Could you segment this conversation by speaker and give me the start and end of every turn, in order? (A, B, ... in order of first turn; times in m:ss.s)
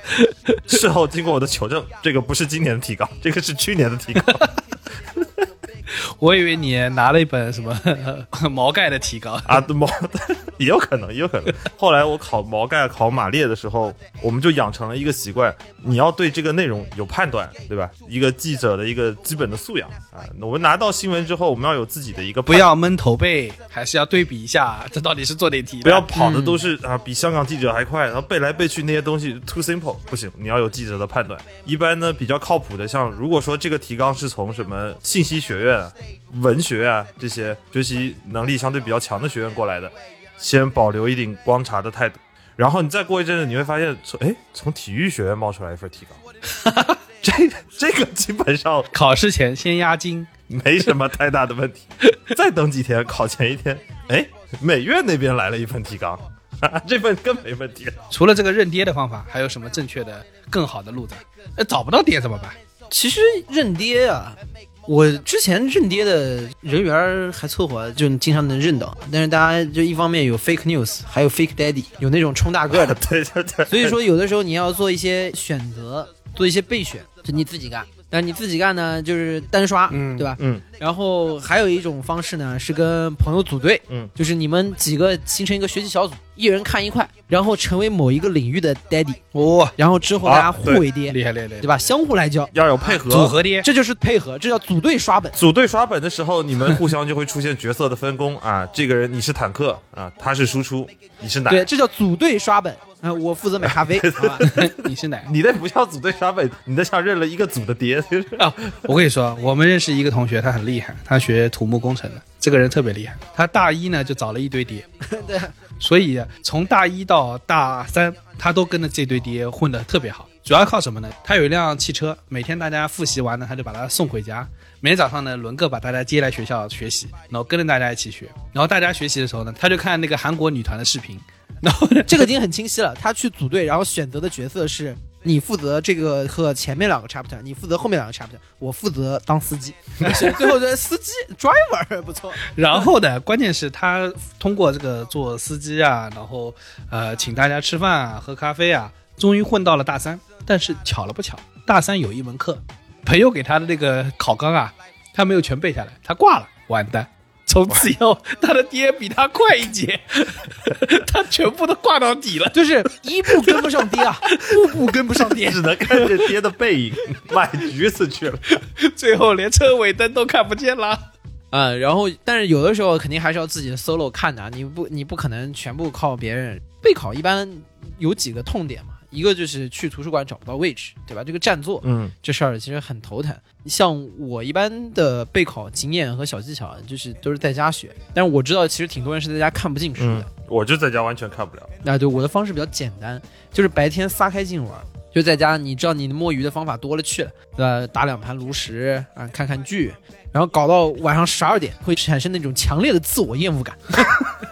0:00.2-0:00.6 A
0:00.7-0:04.5 B
0:06.0-0:09.6 A
0:09.4-0:22.7 B
0:22.5-0:26.1 A
0:25.8-0:46.2 B
0:26.2-0:26.6 C
0:46.5-0:47.0 A
0:47.2-0:48.9 B
0:48.9-0:50.3 A
0:50.5-0:58.0 B
0:58.1-1:02.6 A
1:02.9-1:13.0 C
1:12.7-1:14.0 B
1:13.7-1:29.2 C
1:19.9-1:20.4 A
1:20.4-1:20.6 B
1:29.3-1:29.8 A
1:29.8-1:33.0 C
1:30.2-1:30.9 B
1:31.0-1:31.7 A
1:32.5-1:33.4 B
1:32.8-1:33.7 A
1:33.6-1:35.4 C
1:35.3-1:41.7 B
1:41.5-1:44.5 C
1:43.6-1:48.6 B
1:44.4-1:45.3 A
1:48.4-1:54.8 A
1:55.0-1:55.5 C
1:55.8-2:12.3 A
2:12.1-2:22.5 C
2:22.5-2:42.7 A
2:42.5-2:45.6 C
2:43.3-2:45.4 A
2:45.4-2:48.6 B
2:46.0-2:46.3 A
2:48.8-2:51.0 A
2:51.5-3:10.3 C
3:01.8-3:02.1 B
3:10.0-3:11.7 B
3:11.8-3:24.2 C